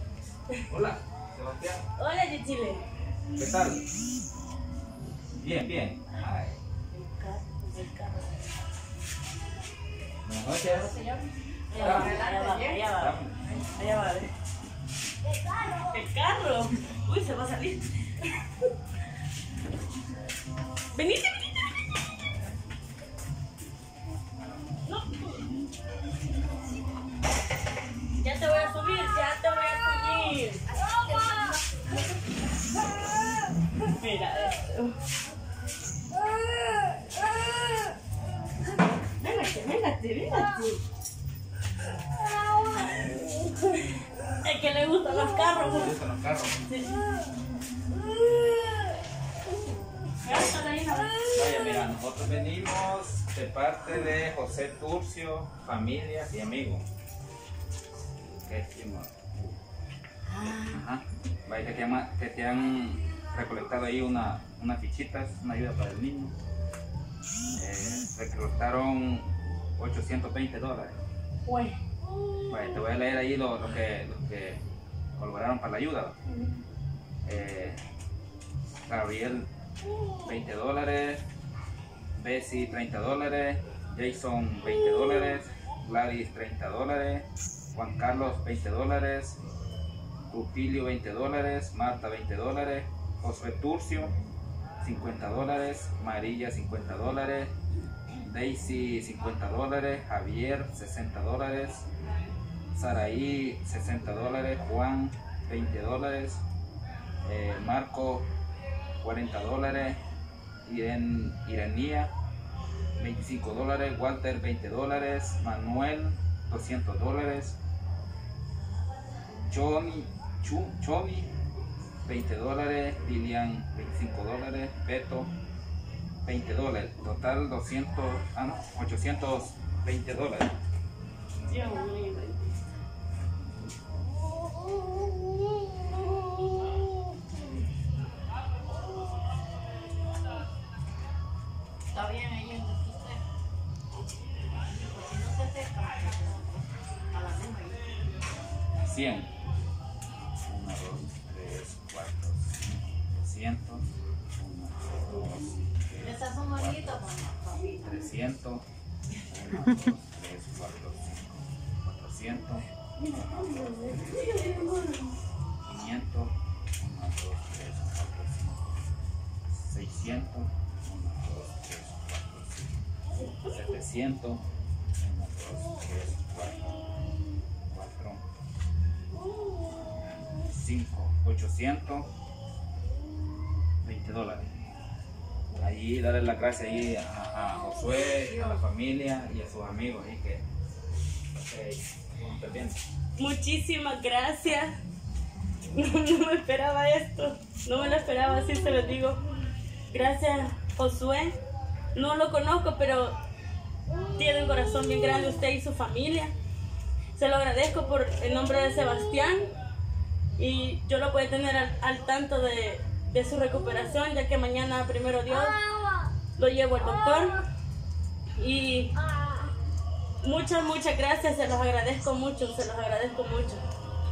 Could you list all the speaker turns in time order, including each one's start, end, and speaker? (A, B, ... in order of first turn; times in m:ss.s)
0:00.7-0:01.8 A
0:02.0-0:02.8 B
0:03.3-0:03.8 A
0:05.4-0:06.6 A
0:06.9-0:08.3 B
0:10.2-0:11.0 A
0:11.7-0:14.3 B
0:11.7-0:12.9 C
0:11.8-0:12.2 A
0:12.9-0:13.4 A
0:15.7-0:18.2 B
0:20.9-0:21.4 B
0:24.9-0:25.2 B
0:28.2-0:30.6 B
0:33.8-0:35.0 B
0:39.2-0:40.8 B
0:44.4-0:45.9 B
0:45.7-0:46.6 A
0:46.6-0:47.0 B
0:50.2-0:51.2 B
0:51.3-0:56.8 A
0:58.4-0:59.6 A
1:00.3-1:00.8 B
1:00.6-1:06.3 A
1:07.5-1:11.0 A
1:11.4-1:11.8 B
1:12.5-1:14.6 A
1:15.2-1:16.2 A
1:16.2-1:16.6 B
1:17.2-1:17.8 A
1:18.8-1:19.5 A
1:20.2-1:21.2 A
1:22.2-1:29.4 A
1:30.3-1:34.1 A
1:34.8-1:37.5 A
1:38.2-1:41.9 A
1:42.7-1:46.4 A
1:47.2-1:48.3 A
1:49.0-1:50.0 A
1:50.6-1:52.1 A
1:53.0-1:57.6 A
1:59.5-2:01.3 A
2:02.0-2:05.3 A
2:06.2-2:10.5 A
2:11.5-2:12.5 B
2:21.9-2:23.2 C
2:24.6-2:27.9 C
2:28.8-2:29.3 A
2:30.5-2:38.7 A
2:36.0-2:37.8 C
2:39.3-2:43.9 A
2:43.0-2:45.0 B
2:45.6-2:48.8 A
2:49.5-2:54.4 A
2:55.0-2:56.8 A
2:57.7-2:58.2 A
3:00.2-3:02.1 A
3:03.8-3:04.5 A
3:05.5-3:10.4 A
3:08.2-3:08.6 C
3:11.3-3:12.8 A
3:13.2-3:14.8 B
3:15.7-3:19.2 B
3:19.9-3:21.4 B
3:21.9-3:23.1 B
3:24.1-3:26.3 B
3:27.1-3:29.5 B
3:30.4-3:35.6 B
3:36.4-3:37.4 B
3:38.4-3:38.9 B
3:40.2-3:43.6 B